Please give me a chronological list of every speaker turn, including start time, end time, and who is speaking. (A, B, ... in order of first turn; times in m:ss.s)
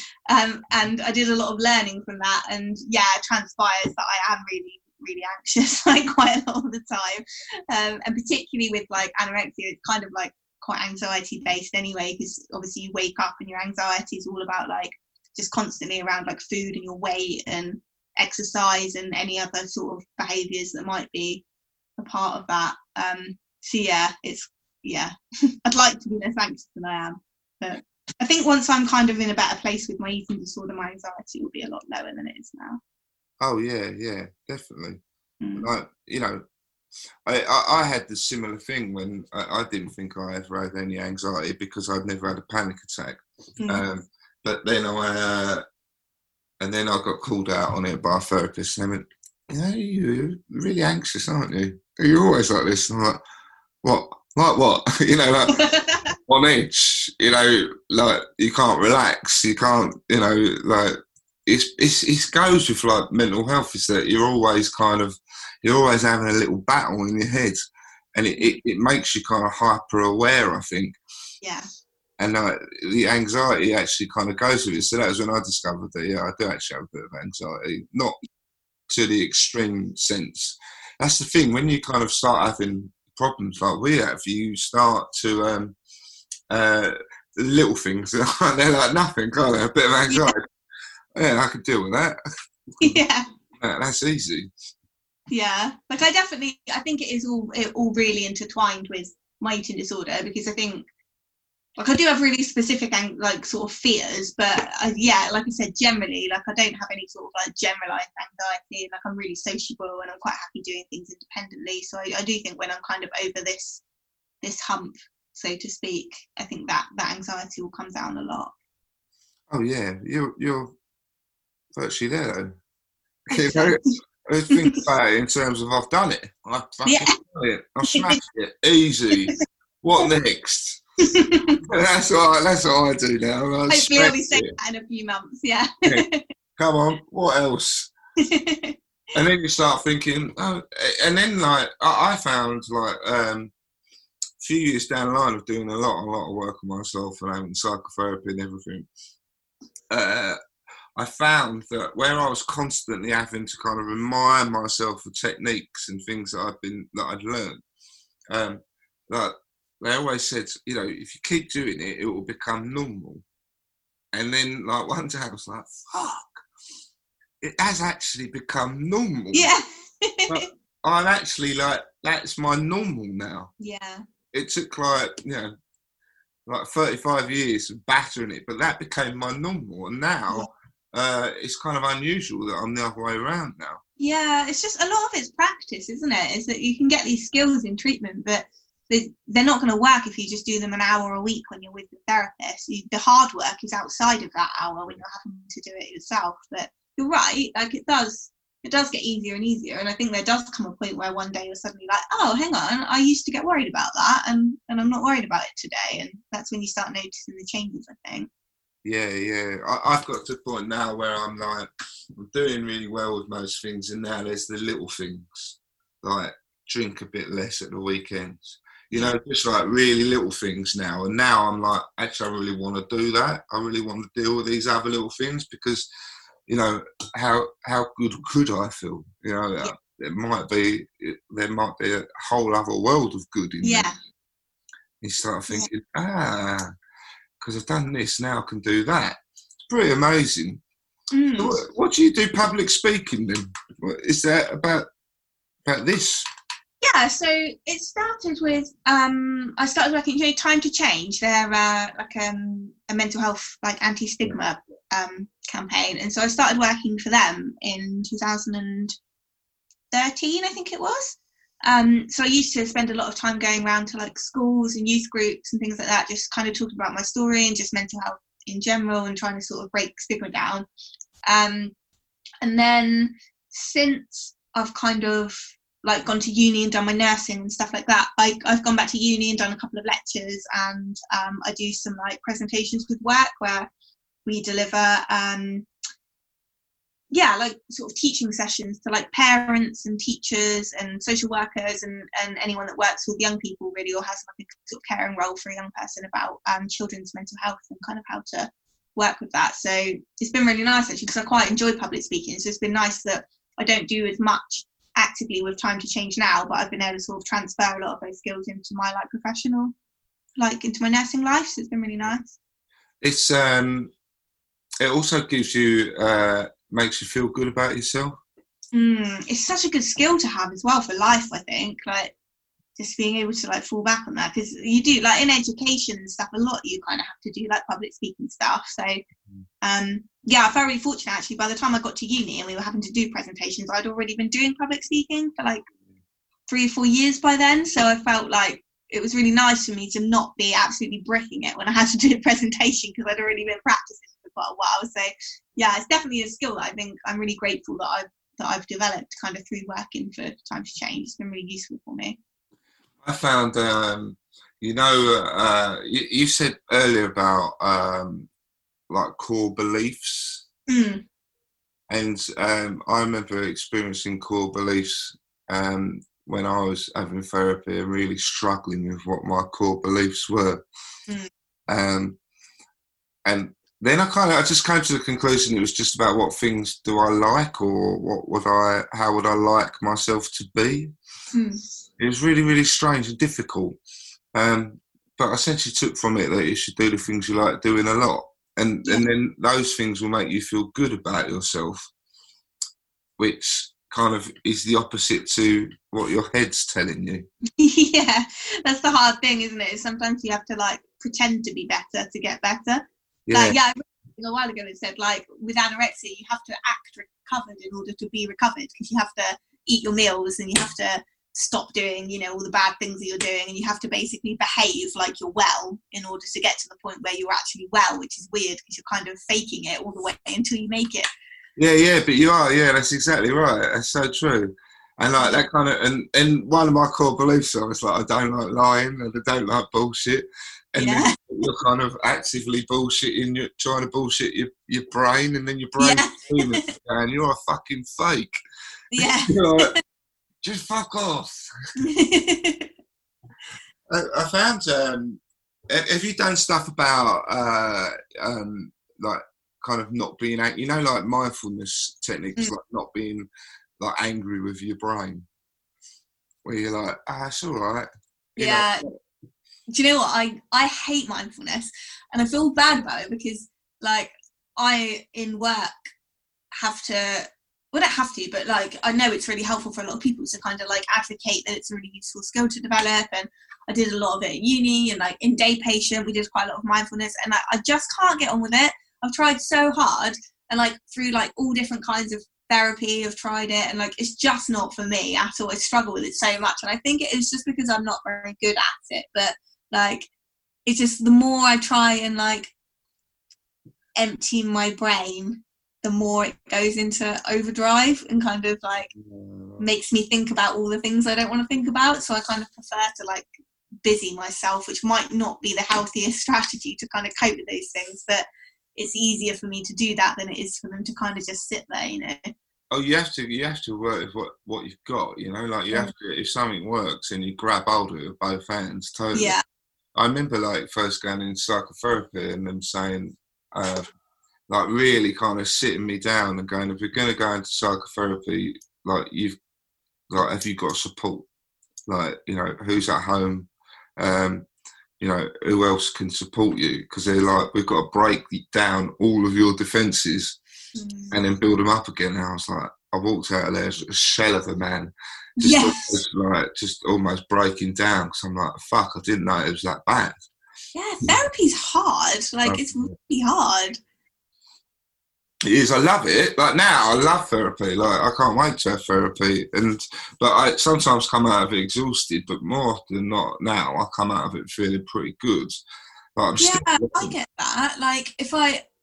0:00.3-0:21.4 A
0:22.0-0:25.1 A
0:25.6-0:32.8 A
0:33.4-0:35.0 B
0:35.4-0:35.7 A
0:35.6-0:36.4 B
0:37.3-0:45.6 B
0:46.6-0:53.2 B
0:53.8-0:55.6 B
0:55.5-0:56.1 A
0:56.3-1:07.6 B
1:08.2-1:11.0 B
1:12.2-1:18.2 B
1:18.9-1:25.8 B
1:26.5-1:30.5 B
1:30.1-1:30.4 A
1:31.2-1:32.2 B
1:32.8-1:33.3 A
1:33.6-1:34.5 B
1:35.3-1:40.9 A
1:41.8-1:53.8 A
1:54.4-1:58.5 A
1:59.5-2:00.8 B
2:01.8-2:02.6 B
2:03.3-2:10.8 B
2:03.3-2:03.9 A
2:04.6-2:04.8 A
2:06.8-2:07.2 A
2:07.9-2:08.2 A
2:11.0-2:11.6 A
2:11.7-2:14.6 B
2:13.7-2:16.2 A
2:16.6-2:17.9 B
2:18.2-2:18.8 A
2:19.2-2:23.5 B
2:24.4-2:28.9 B
2:29.9-2:30.4 B
2:31.0-2:37.6 B
2:38.3-2:43.2 B
2:44.1-2:46.4 B
2:47.4-2:49.5 B
2:49.3-2:50.4 A
2:50.3-2:53.5 B
2:53.6-2:54.0 A
2:54.3-2:55.5 B
2:56.5-3:03.8 B
3:04.0-3:28.3 A
3:28.8-3:45.9 B
3:46.5-3:53.9 B
3:53.6-3:54.0 A
3:55.0-3:56.7 B
3:57.4-3:59.2 B
3:59.7-4:00.6 B
4:01.1-4:01.6 A
4:01.4-4:04.9 B
4:05.7-4:06.3 B
4:06.8-4:19.0 A
4:19.9-4:30.7 A
4:31.3-4:31.7 A
4:32.4-4:43.7 A
4:44.3-4:45.7 A
4:47.1-5:09.7 A
5:10.4-5:12.3 A
5:13.0-5:13.9 B
5:14.8-5:18.2 B
5:18.7-5:22.1 A
5:22.8-5:29.0 A
5:29.6-5:35.6 A
5:36.5-5:52.2 A
5:53.0-5:58.3 B
5:58.9-6:00.4 B
6:00.7-6:01.0 A
6:01.9-6:10.6 B
6:11.7-6:12.2 B
6:13.2-6:20.9 B
6:21.3-6:21.6 A
6:22.0-6:23.8 B
6:24.3-6:31.9 B
6:33.2-6:37.3 B
6:37.6-7:01.1 A
6:43.3-6:43.6 B
7:01.6-7:18.4 B
7:05.2-7:05.4 A
7:10.8-7:11.2 A
7:15.8-7:16.7 A
7:18.9-7:19.8 A
7:19.0-7:19.8 B
7:20.4-7:21.5 B
7:21.8-7:22.7 A
7:23.9-7:35.3 B
7:36.4-7:38.9 B
7:38.4-7:38.9 A
7:39.7-7:45.9 A
7:46.5-8:10.1 A
8:10.7-8:12.5 A
8:14.0-8:18.9 A
8:18.9-8:19.7 B
8:19.6-8:23.3 A
8:23.8-8:32.3 A
8:32.7-8:39.4 B
8:39.1-8:39.4 A
8:40.0-8:43.9 B
8:44.5-8:49.4 B
8:50.1-8:51.3 B
8:51.9-8:54.4 B
8:55.0-9:00.4 B
9:00.8-9:01.2 A
9:01.1-9:10.2 B
9:05.4-9:06.0 A
9:10.7-9:13.8 A
9:12.4-9:12.9 B
9:15.4-9:25.6 B
9:26.2-9:27.1 B
9:26.4-9:28.6 A